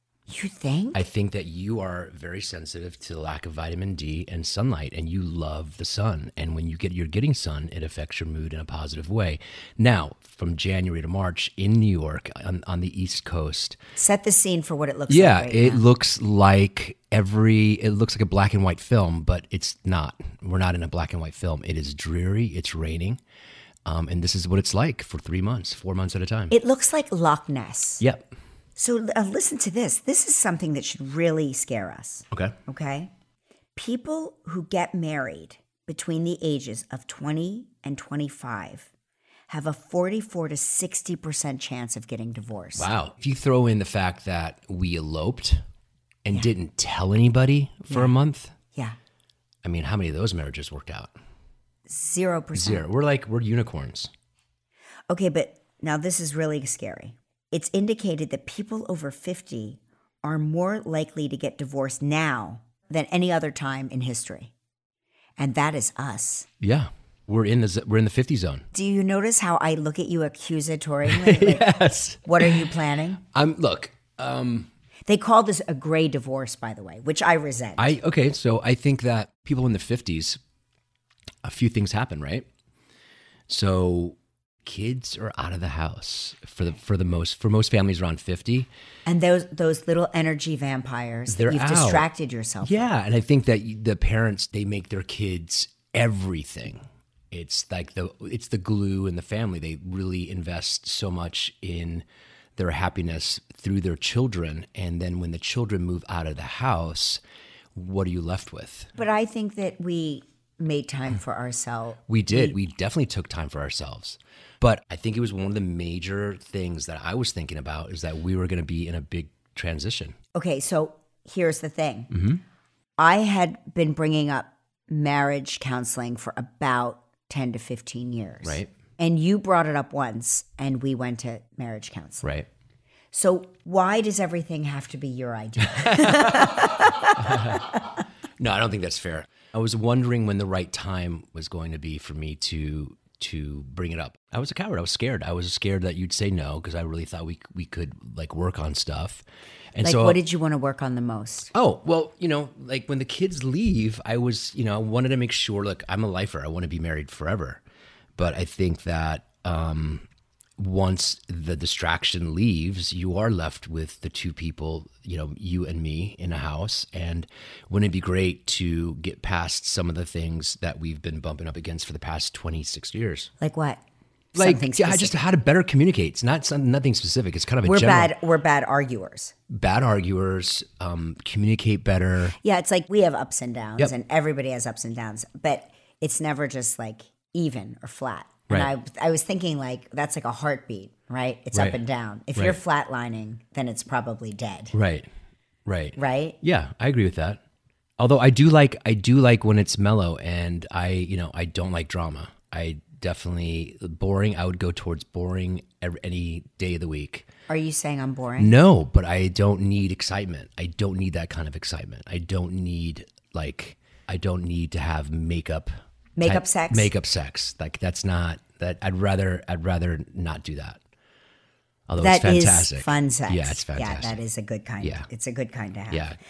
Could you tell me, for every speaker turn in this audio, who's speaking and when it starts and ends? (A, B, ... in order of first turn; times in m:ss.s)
0:00.3-0:01.0 A
0:00.9-0:13.8 B
0:14.0-0:15.8 A
0:15.1-0:23.2 B
0:23.8-0:26.5 B
0:26.5-0:28.0 A
0:28.0-0:28.3 B
0:28.8-0:33.1 A
0:33.8-0:38.9 A
0:39.5-0:42.9 A
0:42.8-0:45.6 B
0:46.2-0:48.5 B
0:49.6-0:51.1 B
0:51.9-0:52.8 A
0:52.6-0:54.1 B
0:55.1-1:04.5 A
1:05.4-1:06.5 A
1:06.6-1:08.7 B
1:08.7-1:13.2 A
1:11.1-1:12.6 B
1:13.3-1:14.7 B
1:15.1-1:17.9 A
1:17.8-1:20.4 B
1:21.4-1:22.5 B
1:23.5-1:28.7 B
1:29.1-1:32.8 A
1:31.3-1:32.1 B
1:32.6-1:47.2 B
1:47.8-1:48.9 B
1:49.0-1:52.6 A
1:52.1-2:00.2 B
2:00.3-2:02.1 A
2:02.1-2:02.4 B
2:03.0-2:12.3 A
2:08.4-2:08.7 B
2:13.1-2:17.8 A
2:16.1-2:16.6 B
2:17.2-2:17.6 B
2:18.4-2:29.2 B
2:29.8-2:30.2 B
2:29.8-2:31.5 A
2:31.5-2:37.6 B
2:38.2-2:40.1 B
2:40.6-2:53.3 B
2:53.4-2:53.8 A
2:54.3-2:55.1 A
2:54.4-2:58.1 B
2:57.6-2:59.3 A
2:59.5-3:02.4 B
3:02.4-3:14.7 A
3:11.5-3:11.8 B
3:14.7-3:15.1 B
3:15.7-3:17.4 B
3:16.0-3:16.4 A
3:18.0-3:27.3 B
3:27.5-3:28.5 A
3:28.4-3:40.8 B
3:36.2-3:36.9 A
3:41.9-3:44.2 B
3:42.0-3:46.1 A
3:44.8-3:45.1 B
3:45.9-3:46.2 B